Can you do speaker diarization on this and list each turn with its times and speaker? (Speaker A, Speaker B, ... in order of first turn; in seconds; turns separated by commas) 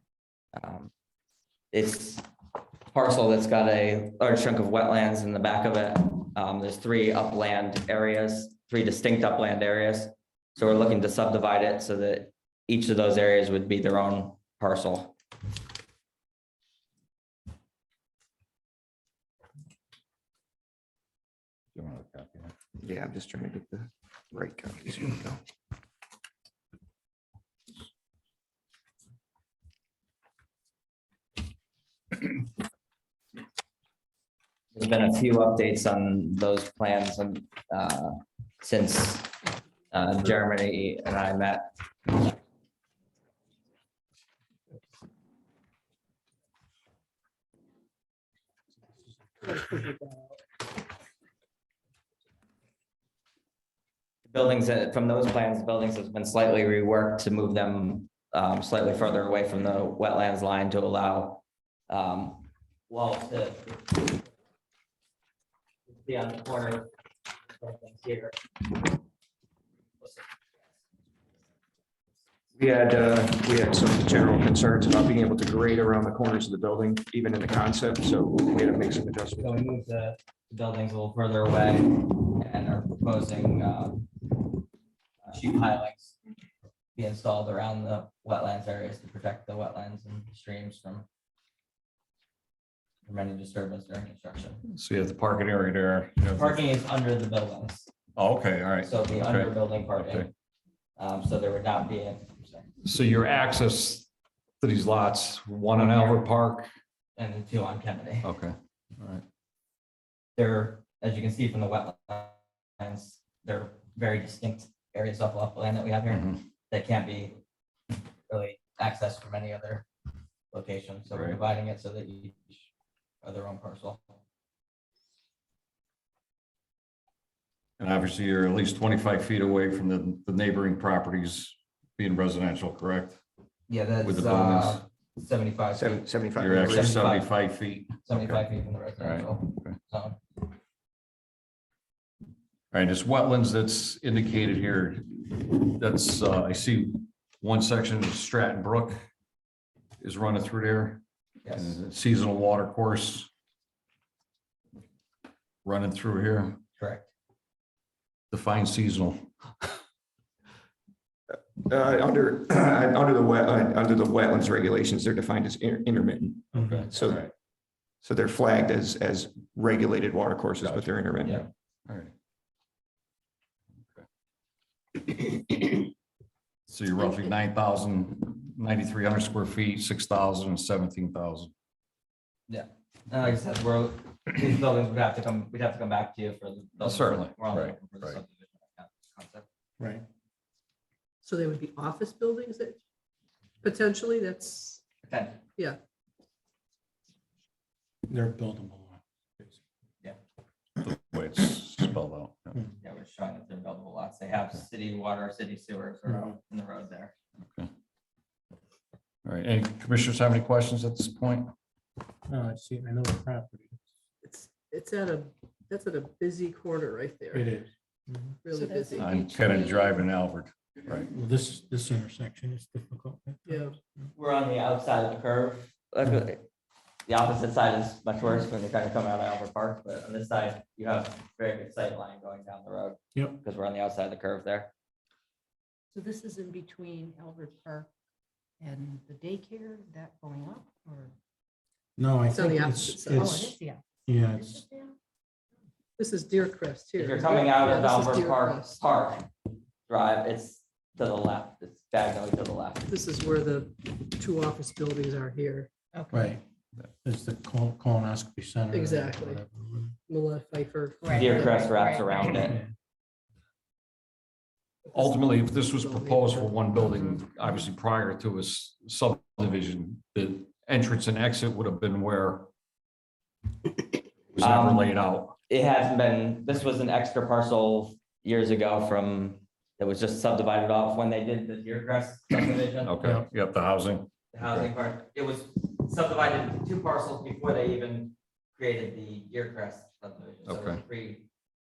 Speaker A: 0.5-0.9, Speaker A: 1.7-2.3, Speaker A: 2.9-15.2, Speaker B: 21.8-22.5, Speaker C: 22.8-25.4, Speaker A: 34.8-39.4, Speaker A: 39.9-42.3, Speaker D: 49.4-50.4, Speaker A: 54.3-64.2, Speaker A: 65.9-66.9, Speaker A: 67.5-68.4, Speaker A: 70.0-70.3, Speaker C: 72.6-79.6, Speaker A: 79.4-84.1, Speaker A: 85.2-86.2, Speaker A: 87.0-91.1, Speaker A: 93.0-94.6, Speaker B: 94.7-96.6, Speaker A: 96.3-97.9, Speaker B: 98.2-100.3, Speaker A: 98.8-100.3, Speaker A: 101.0-102.7, Speaker B: 102.8-104.1, Speaker B: 104.6-106.7, Speaker A: 105.7-106.2, Speaker A: 107.2-108.3, Speaker B: 108.2-109.2, Speaker A: 110.4-117.4, Speaker B: 116.1-116.4, Speaker A: 118.3-119.9, Speaker A: 120.5-122.7, Speaker B: 121.1-121.4, Speaker A: 123.2-124.2, Speaker B: 127.8-133.2, Speaker A: 133.7-137.3, Speaker B: 134.0-134.8, Speaker C: 135.7-137.0, Speaker B: 136.4-138.4, Speaker A: 138.0-140.2, Speaker B: 139.0-139.8, Speaker B: 142.7-149.0, Speaker B: 150.0-151.0, Speaker A: 151.4-151.8, Speaker B: 151.6-153.3, Speaker B: 155.7-156.6, Speaker A: 156.8-157.1, Speaker B: 158.3-159.8, Speaker C: 161.3-167.3, Speaker B: 166.5-167.3, Speaker C: 168.0-171.5, Speaker B: 170.6-170.9, Speaker B: 171.9-172.1, Speaker B: 173.8-174.0, Speaker B: 176.7-181.5, Speaker A: 182.5-189.5, Speaker B: 186.8-188.2, Speaker E: 189.8-190.0, Speaker D: 191.2-192.8, Speaker D: 193.6-194.8, Speaker A: 195.0-195.4, Speaker E: 198.1-199.6, Speaker B: 200.8-202.6, Speaker A: 202.8-207.1, Speaker B: 209.2-211.5, Speaker E: 212.3-213.8, Speaker D: 214.2-217.5, Speaker E: 217.3-218.4, Speaker D: 218.4-219.2, Speaker F: 218.5-220.0, Speaker B: 219.0-221.1, Speaker E: 221.0-223.5, Speaker D: 223.5-223.8, Speaker A: 224.2-226.4, Speaker A: 227.1-234.7, Speaker F: 235.9-237.9, Speaker F: 238.6-241.1, Speaker E: 242.0-244.6, Speaker D: 242.3-243.5, Speaker F: 243.2-245.0, Speaker D: 246.0-248.8, Speaker A: 247.0-249.3, Speaker A: 249.9-252.9, Speaker D: 252.9-255.7, Speaker F: 255.9-256.4, Speaker E: 256.1-256.4, Speaker E: 257.0-260.0, Speaker D: 258.7-259.4, Speaker D: 260.1-261.7, Speaker F: 261.0-262.4, Speaker A: 261.1-262.6, Speaker E: 262.4-262.7, Speaker D: 264.9-267.2, Speaker B: 264.9-272.5, Speaker B: 274.4-275.4, Speaker A: 274.4-274.9, Speaker A: 275.5-283.2, Speaker B: 282.8-284.7, Speaker A: 284.3-291.3, Speaker B: 290.5-290.8